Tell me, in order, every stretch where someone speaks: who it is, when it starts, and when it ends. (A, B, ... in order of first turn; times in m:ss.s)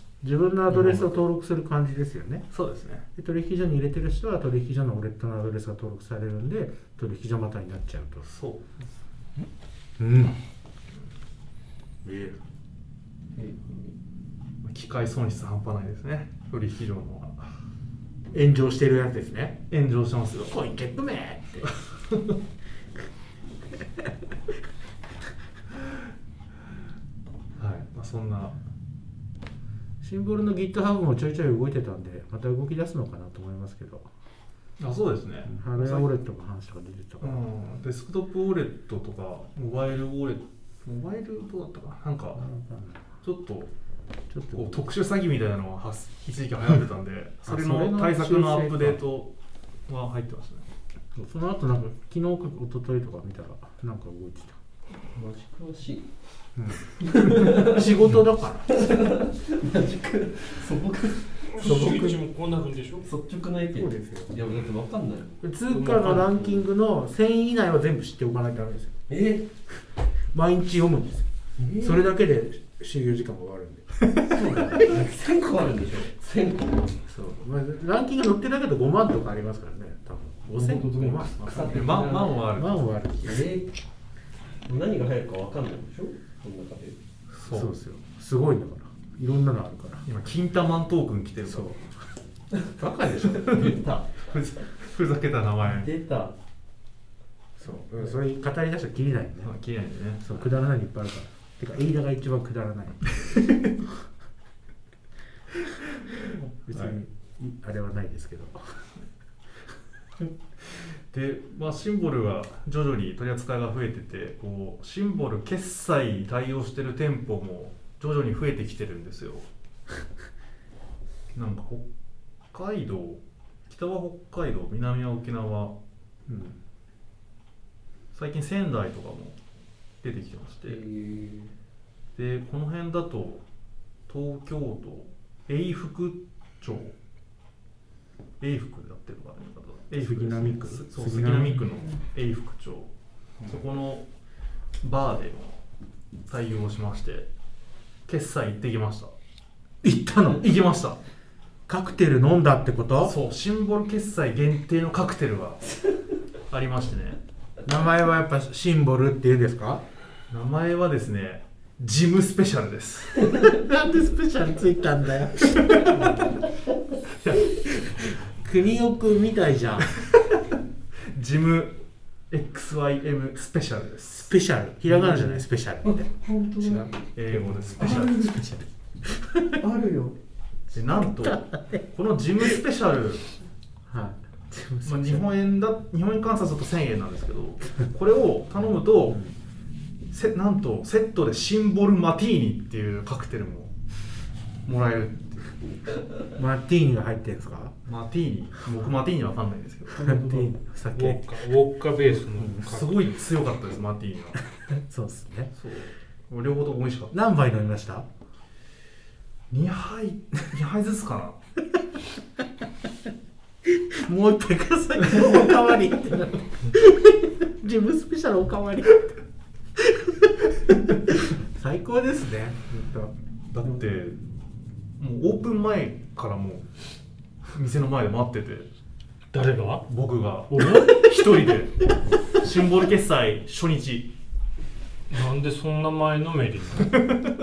0:00.2-0:02.5 A
0:00.7-0:01.1 B
0:02.5-0:03.0 B
0:03.1-0:08.3 A
0:08.2-0:08.7 B
0:10.0-0:10.4 A
0:12.0-0:12.4 A
0:13.3-0:14.0 C
0:14.6-0:17.5 B
0:18.3-0:19.6 A
0:19.7-0:20.6 B
0:20.4-0:21.7 A
0:27.6-0:28.6 B
0:30.0-0:34.1 A
0:34.8-0:36.1 B
0:35.4-0:37.4 A
0:37.2-0:42.4 B
0:42.4-0:43.0 A
0:43.2-0:43.7 B
0:44.3-0:44.8 A
0:44.5-0:49.3 B
0:47.4-0:49.0 A
0:49.9-0:50.7 B
0:51.1-0:54.6 A
0:55.1-0:56.1 C
0:56.6-0:58.8 A
0:56.9-0:58.1 C
0:58.7-1:02.1 C
1:01.5-1:03.1 D
1:01.6-1:02.2 A
1:03.0-1:06.6 C
1:03.7-1:04.3 A
1:05.4-1:09.0 A
1:09.1-1:09.5 C
1:10.3-1:11.3 A
1:11.6-1:12.0 C
1:11.8-1:13.9 A
1:14.2-1:16.9 C
1:17.1-1:21.7 A
1:20.5-1:22.5 C
1:21.4-1:22.8 B
1:22.5-1:23.5 A
1:23.2-1:23.8 C
1:24.6-1:27.0 C
1:27.3-1:27.7 B
1:27.5-1:30.0 A
1:30.0-1:31.8 B
1:31.4-1:31.9 A
1:32.7-1:33.7 A
1:33.3-1:35.9 B
1:33.4-1:34.2 C
1:35.6-1:36.4 C
1:37.6-1:39.5 A
1:39.4-1:40.5 B
1:40.2-1:43.1 A
1:43.1-1:43.7 B
1:46.6-1:48.8 A
1:51.1-1:59.5 B
2:01.3-2:01.9 B
2:02.5-2:05.8 B
2:06.3-2:06.6 A
2:08.1-2:09.4 B
2:10.0-2:10.8 B
2:10.6-2:11.5 C
2:12.1-2:13.4 B
2:14.1-2:16.9 B
2:18.4-2:22.9 B
2:20.0-2:21.7 A
2:23.4-2:24.0 B
2:24.8-2:25.6 B
2:26.3-2:27.3 B
2:28.0-2:29.1 B
2:29.8-2:30.4 A
2:30.3-2:31.0 B
2:31.7-2:33.1 A
2:33.0-2:35.8 B
2:36.5-2:37.2 B
2:37.6-2:39.8 A
2:40.3-2:43.4 B
2:43.5-2:46.2 A
2:47.8-2:50.0 A
2:51.1-2:54.3 B
2:54.1-2:59.6 A
2:54.9-2:58.2 C
2:57.1-2:58.2 B
2:59.6-3:00.2 C
3:00.7-3:01.8 A
3:00.7-3:03.2 B
3:03.9-3:05.3 A
3:04.8-3:09.2 B
3:10.1-3:13.7 B
3:14.6-3:15.6 B
3:16.4-3:17.8 A
3:17.8-3:20.0 B
3:20.0-3:21.4 A
3:20.0-3:23.2 D
3:22.6-3:24.4 B
3:24.8-3:25.5 A
3:25.5-3:27.1 B
3:27.1-3:28.0 A
3:29.5-3:31.4 B
3:33.6-3:39.2 A
3:39.8-3:40.4 A
3:41.0-3:43.1 A
3:43.5-3:44.2 B
3:45.0-3:46.7 B
3:47.5-3:48.7 B
3:49.3-3:49.8 D
3:49.9-3:54.1 B
3:50.5-3:51.5 D
3:55.1-3:57.0 D